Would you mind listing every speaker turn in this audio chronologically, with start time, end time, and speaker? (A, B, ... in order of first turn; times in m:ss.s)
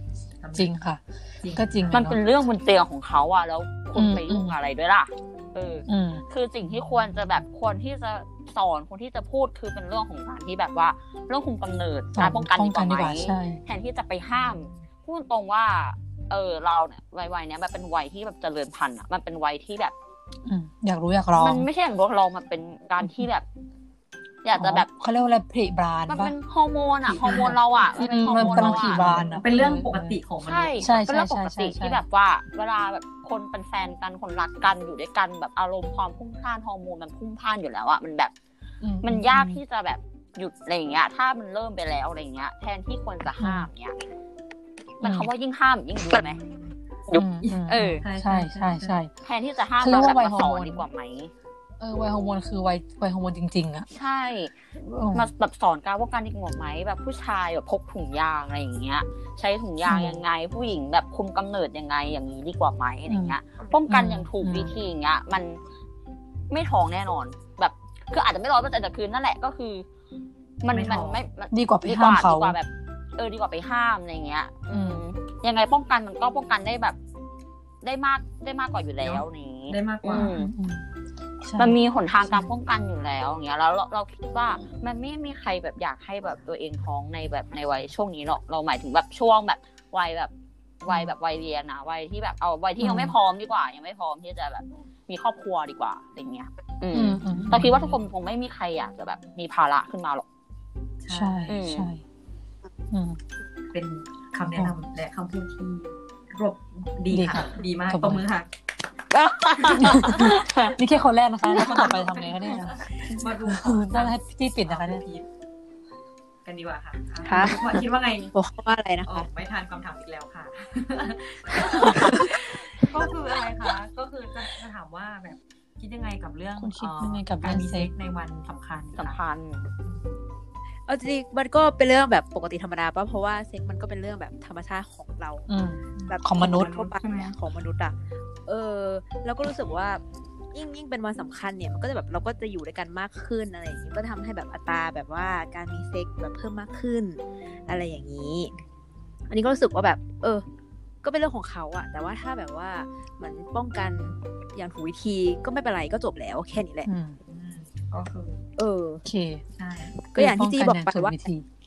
0:00.4-0:00.7 A
0:00.5-0:02.2 B
0:01.4-0:02.1 A
0:01.9-0:19.9 C
0:03.9-0:04.6 B
0:05.9-0:06.2 B
0:12.2-0:13.6 B
0:14.4-0:14.8 A
0:20.4-0:21.6 B
0:21.4-0:23.4 C
0:24.4-0:24.9 C
0:24.6-0:26.3 B
0:26.1-0:29.1 C
0:27.1-0:30.2 B
0:27.2-0:30.9 A
0:30.4-0:38.3 C
0:30.8-0:32.0 B
0:38.8-0:39.6 B
0:39.0-0:43.9 C
0:43.4-0:43.7 B
0:45.0-0:46.4 C
0:45.0-0:45.3 B
0:47.1-0:48.0 C
0:47.1-0:49.1 B
0:47.4-0:48.9 A
0:49.2-0:51.3 C
0:49.8-0:50.8 B
0:51.8-0:53.9 B
0:53.9-0:54.5 C
0:54.8-0:55.3 B
0:55.1-1:05.6 C
0:59.8-1:00.2 B
1:03.1-1:03.4 B
1:03.9-1:04.7 B
1:06.5-1:09.9 C
1:10.6-1:17.0 C
1:10.7-1:11.2 A
1:11.5-1:12.6 B
1:14.7-1:15.0 B
1:17.8-1:20.5 C
1:19.0-1:20.3 A
1:20.1-1:20.8 B
1:21.4-1:22.5 B
1:21.6-1:30.3 C
1:30.8-1:40.2 C
1:32.8-1:33.1 B
1:36.9-1:37.8 B
1:37.3-1:38.0 A
1:41.0-1:41.5 A
1:41.1-1:42.0 B
1:41.5-1:41.9 C
1:42.9-1:43.2 B
1:43.7-1:48.5 A
1:47.1-1:48.2 B
1:49.1-1:50.8 C
1:49.7-1:50.2 A
1:49.8-1:55.0 B
1:51.4-1:55.3 A
1:56.4-1:58.3 A
1:57.2-1:57.6 D
1:58.3-1:59.3 D
1:59.0-2:09.2 A
2:01.7-2:02.2 B
2:06.6-2:07.9 B
2:09.0-2:09.7 C
2:09.8-2:10.1 A
2:10.9-2:15.5 D
2:15.5-2:16.7 B
2:15.9-2:17.4 A
2:16.1-2:17.9 D
2:18.5-2:20.0 D
2:20.5-2:28.5 D
2:29.3-2:30.4 D
2:31.0-2:36.9 D
2:36.8-2:37.2 B
2:37.2-2:38.4 A
2:38.6-2:39.0 D
2:39.0-2:39.4 B
2:39.6-2:40.0 A
2:40.1-2:41.1 D
2:40.1-2:41.4 B